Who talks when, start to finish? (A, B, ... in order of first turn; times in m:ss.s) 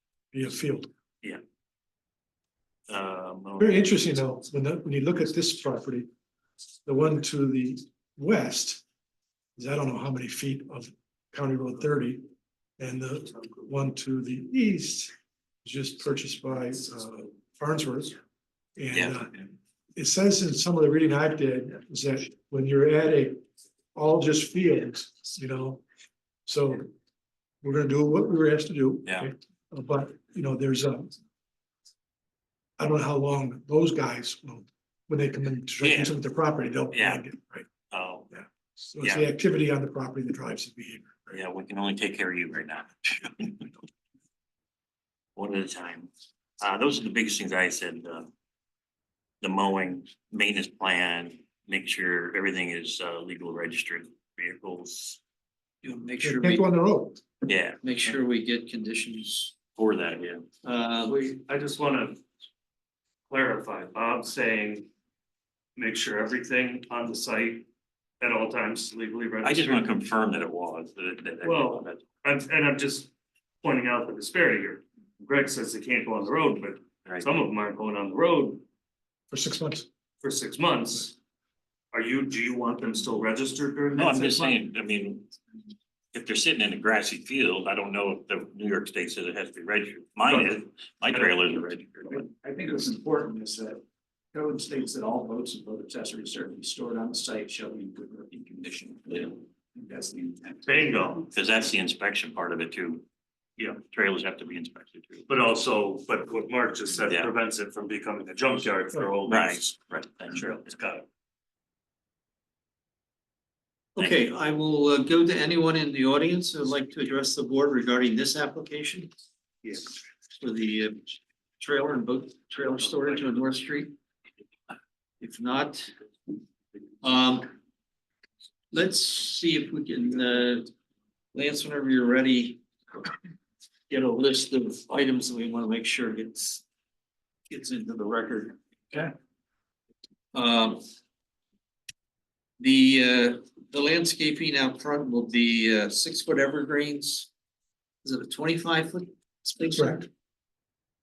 0:00.3-0:00.9 A
0:02.9-0:04.1 B
0:03.6-0:06.1 A
0:06.9-0:08.8 A
0:09.6-0:12.2 A
0:12.8-0:15.1 A
0:15.6-0:18.2 A
0:18.8-0:19.4 A
0:18.9-0:19.2 B
0:20.0-0:23.4 A
0:24.0-0:25.8 A
0:26.4-0:26.9 A
0:27.6-0:31.1 A
0:29.0-0:29.3 B
0:32.8-0:37.7 A
0:35.8-0:36.2 B
0:36.9-0:37.2 B
0:37.9-0:38.3 B
0:38.3-0:41.4 A
0:39.0-0:39.3 B
0:41.3-0:43.6 B
0:45.4-0:46.1 B
0:46.6-0:48.3 B
0:49.4-0:55.2 B
0:55.8-0:56.7 C
0:56.2-0:57.2 A
0:57.4-0:57.8 B
0:57.8-0:59.6 C
0:59.7-1:00.4 B
1:00.6-1:01.2 C
1:01.0-1:02.2 D
1:03.3-1:04.9 D
1:05.8-1:07.7 D
1:08.2-1:09.9 D
1:09.4-1:12.1 B
1:11.4-1:13.1 D
1:13.6-1:18.6 D
1:19.3-1:19.9 A
1:20.2-1:21.2 D
1:21.9-1:24.6 D
1:24.0-1:25.3 B
1:26.1-1:32.3 B
1:30.2-1:31.3 D
1:32.1-1:33.8 E
1:34.3-1:41.1 E
1:40.6-1:41.3 D
1:41.3-1:43.0 B
1:43.9-1:45.3 B
1:45.3-1:51.0 D
1:47.1-1:47.3 B
1:49.3-1:50.5 B
1:54.0-1:59.1 C
2:00.4-2:03.9 C
2:05.2-2:05.9 C
2:07.0-2:07.5 C
2:08.7-2:10.7 C
2:11.3-2:12.6 C
2:13.9-2:16.6 C
2:17.5-2:18.6 C
2:20.3-2:20.8 C
2:22.6-2:27.3 C
2:28.0-2:30.0 C
2:29.8-2:30.0 A